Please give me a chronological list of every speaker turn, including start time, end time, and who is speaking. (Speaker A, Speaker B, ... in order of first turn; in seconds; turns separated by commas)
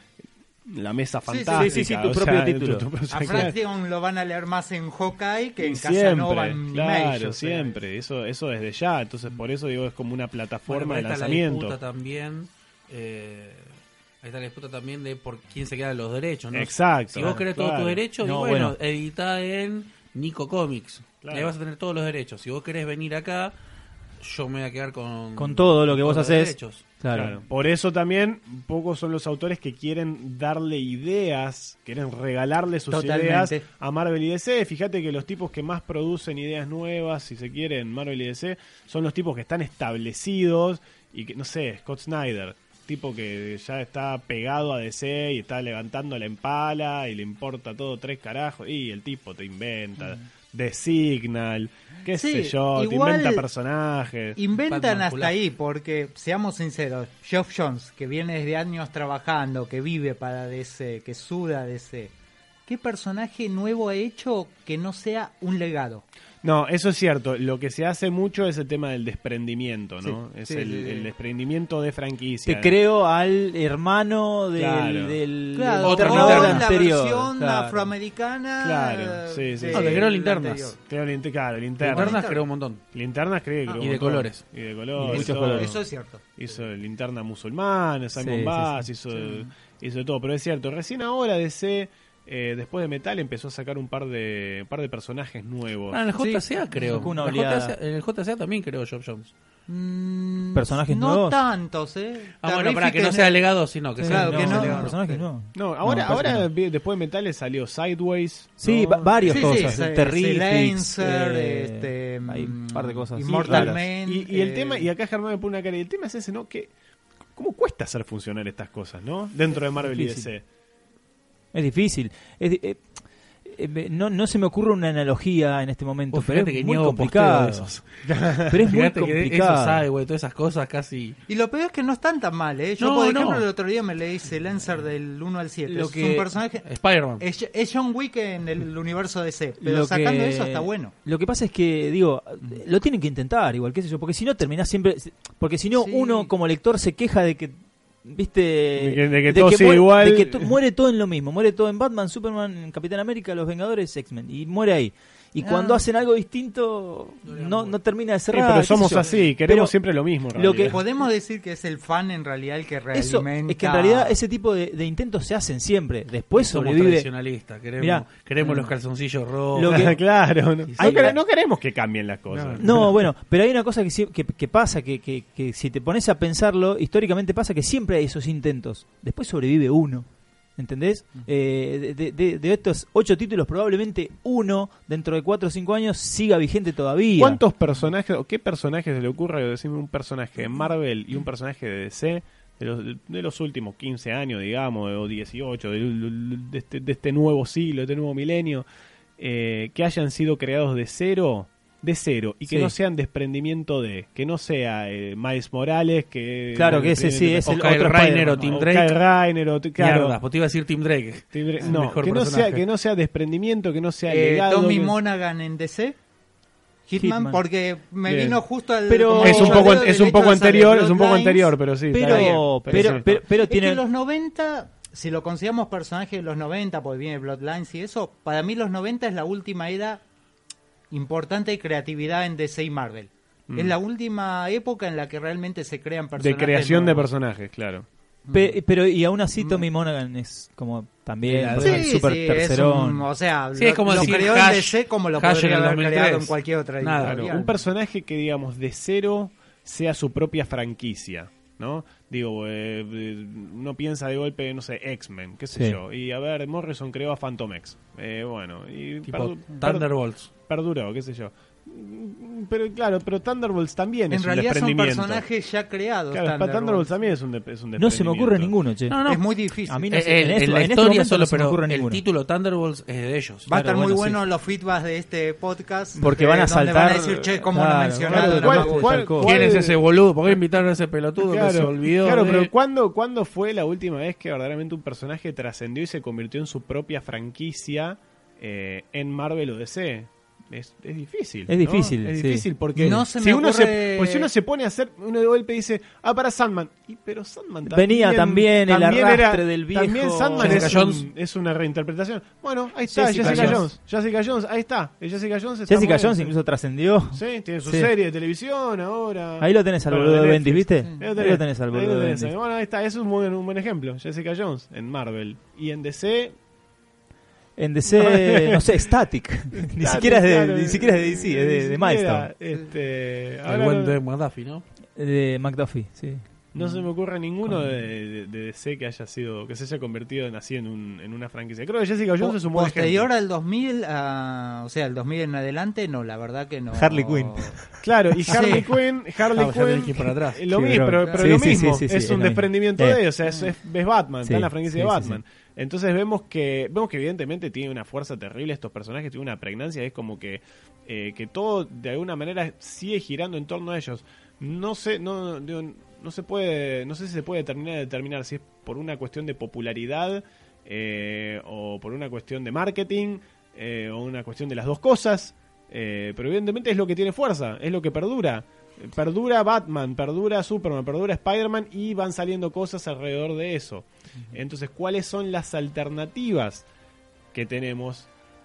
Speaker A: 0.7-3.5, Speaker B: 1.3-1.8, Speaker C: 1.5-3.4, Speaker B: 3.1-7.8, Speaker A: 5.6-11.8, Speaker D: 10.7-23.5, Speaker A: 16.5-18.0, Speaker C: 18.2-18.7, Speaker A: 21.2-21.5, Speaker D: 24.2-26.9, Speaker C: 25.4-27.4, Speaker A: 27.1-54.4, Speaker B: 32.9-33.6, Speaker B: 52.1-53.4, Speaker B: 54.4-62.1, Speaker D: 54.7-55.4, Speaker B: 62.6-66.0, Speaker A: 66.4-72.7, Speaker B: 70.4-71.1, Speaker C: 72.5-77.9, Speaker A: 74.5-75.2, Speaker B: 75.5-80.8, Speaker D: 75.8-76.7, Speaker A: 78.6-80.1, Speaker D: 79.7-80.7, Speaker A: 80.8-82.2, Speaker D: 81.8-82.8, Speaker B: 81.9-82.4, Speaker A: 82.9-85.8, Speaker D: 83.7-84.4, Speaker C: 85.0-85.7, Speaker B: 85.1-86.3, Speaker A: 86.4-96.0, Speaker C: 88.2-88.8, Speaker B: 89.1-89.5, Speaker D: 95.9-99.3, Speaker C: 96.2-97.7, Speaker B: 96.7-97.1, Speaker B: 99.7-105.2, Speaker C: 100.5-101.4, Speaker D: 102.4-105.0, Speaker C: 104.0-106.5, Speaker A: 105.5-109.8, Speaker C: 108.6-113.8, Speaker B: 109.2-114.9, Speaker A: 113.4-116.7, Speaker A: 117.3-120.4, Speaker C: 119.8-120.3, Speaker C: 121.5-127.8, Speaker D: 126.1-127.8, Speaker A: 128.0-128.6, Speaker C: 128.5-129.8, Speaker D: 128.7-131.2, Speaker B: 131.3-140.9, Speaker D: 132.8-133.4, Speaker C: 135.7-136.3, Speaker D: 136.6-137.2, Speaker C: 139.6-159.7, Speaker B: 145.7-146.3, Speaker A: 148.8-150.6, Speaker B: 155.4-155.8, Speaker D: 157.2-157.8, Speaker A: 158.3-160.8, Speaker C: 160.3-160.8, Speaker B: 160.6-164.2, Speaker C: 162.9-167.1, Speaker D: 166.3-169.9, Speaker C: 167.8-168.7, Speaker C: 169.5-170.0, Speaker A: 169.7-172.9, Speaker D: 170.7-171.1, Speaker C: 170.8-171.2, Speaker D: 172.3-172.9, Speaker C: 172.6-187.4, Speaker A: 187.2-198.6, Speaker A: 199.2-207.6, Speaker C: 202.5-202.7, Speaker C: 206.5-208.6, Speaker D: 207.4-208.9, Speaker A: 208.5-210.2, Speaker D: 209.8-212.6, Speaker A: 211.3-214.9, Speaker B: 214.1-216.0, Speaker B: 216.9-230.0, Speaker C: 217.0-217.4, Speaker A: 218.0-218.4, Speaker C: 218.9-219.8, Speaker A: 219.2-223.1, Speaker C: 221.9-223.8, Speaker B: 230.9-237.1, Speaker A: 233.5-233.8, Speaker A: 236.2-237.8, Speaker B: 238.3-238.6, Speaker C: 238.3-243.1, Speaker B: 239.4-239.7, Speaker D: 241.2-241.9, Speaker B: 241.6-247.6, Speaker D: 243.5-247.3, Speaker C: 243.9-244.3, Speaker A: 247.0-265.2, Speaker C: 255.5-255.8, Speaker D: 259.1-260.3, Speaker B: 264.1-266.9, Speaker A: 266.1-268.5, Speaker C: 267.8-269.0, Speaker D: 268.9-269.3, Speaker B: 269.0-269.9, Speaker C: 269.7-272.0, Speaker D: 269.9-273.5, Speaker B: 273.5-279.0, Speaker C: 273.5-274.2, Speaker C: 276.0-279.3, Speaker A: 278.0-280.4, Speaker D: 279.1-282.5, Speaker A: 281.2-306.3, Speaker C: 291.5-293.0, Speaker B: 292.8-294.3, Speaker C: 297.6-300.8, Speaker D: 300.4-301.1, Speaker C: 302.9-303.7, Speaker D: 303.2-303.6, Speaker C: 305.7-307.9, Speaker A: 307.1-316.3, Speaker C: 309.4-312.3, Speaker C: 317.6-322.3, Speaker A: 317.9-318.8, Speaker A: 319.5-323.9, Speaker D: 323.4-324.6, Speaker C: 324.9-326.2, Speaker A: 326.5-333.1, Speaker B: 332.2-337.6, Speaker C: 336.7-338.6, Speaker A: 337.8-376.6, Speaker B: 338.2-338.7, Speaker D: 339.3-340.4, Speaker C: 340.5-343.0, Speaker B: 341.0-341.5, Speaker C: 344.2-345.2, Speaker A: 377.3-378.1